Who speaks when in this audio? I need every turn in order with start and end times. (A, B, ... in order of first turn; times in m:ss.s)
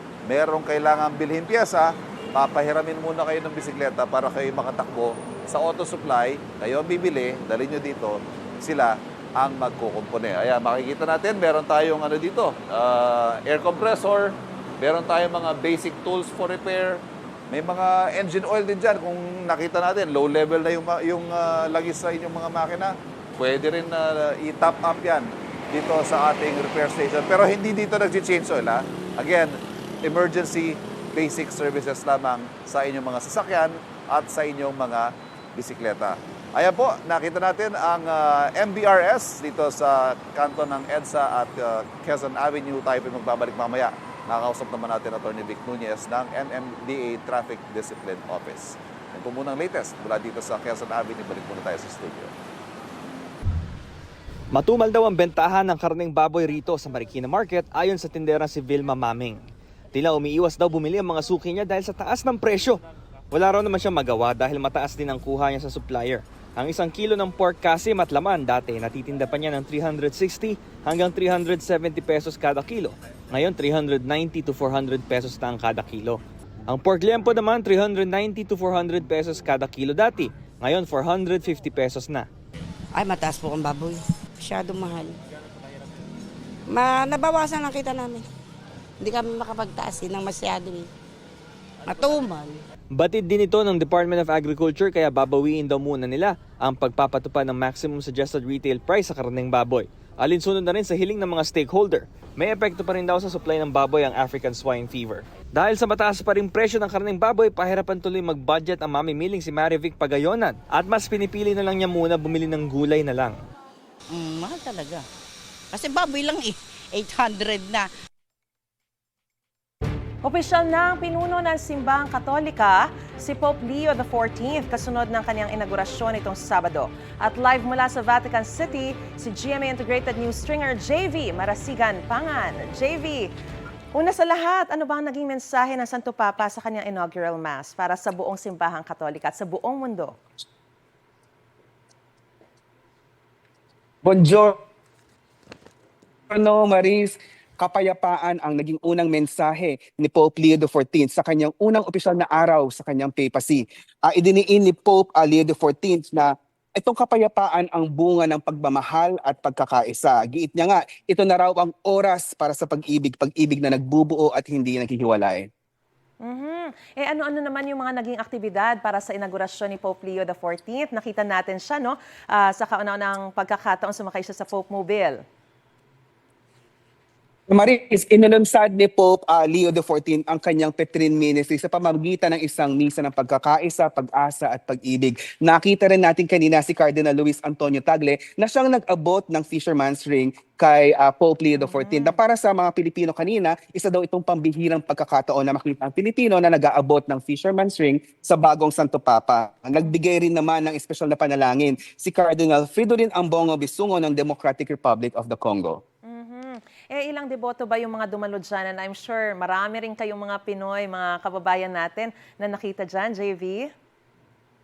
0:00.3-0:52.3 A
0:54.5-1:02.8 B
1:03.3-1:22.3 B
1:23.0-1:25.2 C
1:26.7-1:28.2 C
1:29.0-1:30.9 C
1:31.8-1:32.6 C
1:32.9-1:53.4 B
1:54.1-1:55.0 C
1:55.7-1:57.9 C
2:00.2-2:13.3 D
2:13.9-2:20.2 D
2:24.0-2:24.6 E
2:26.3-2:45.5 E
2:46.2-2:55.2 D
2:57.5-3:25.8 E
3:11.6-3:12.2 D
3:26.1-3:33.7 D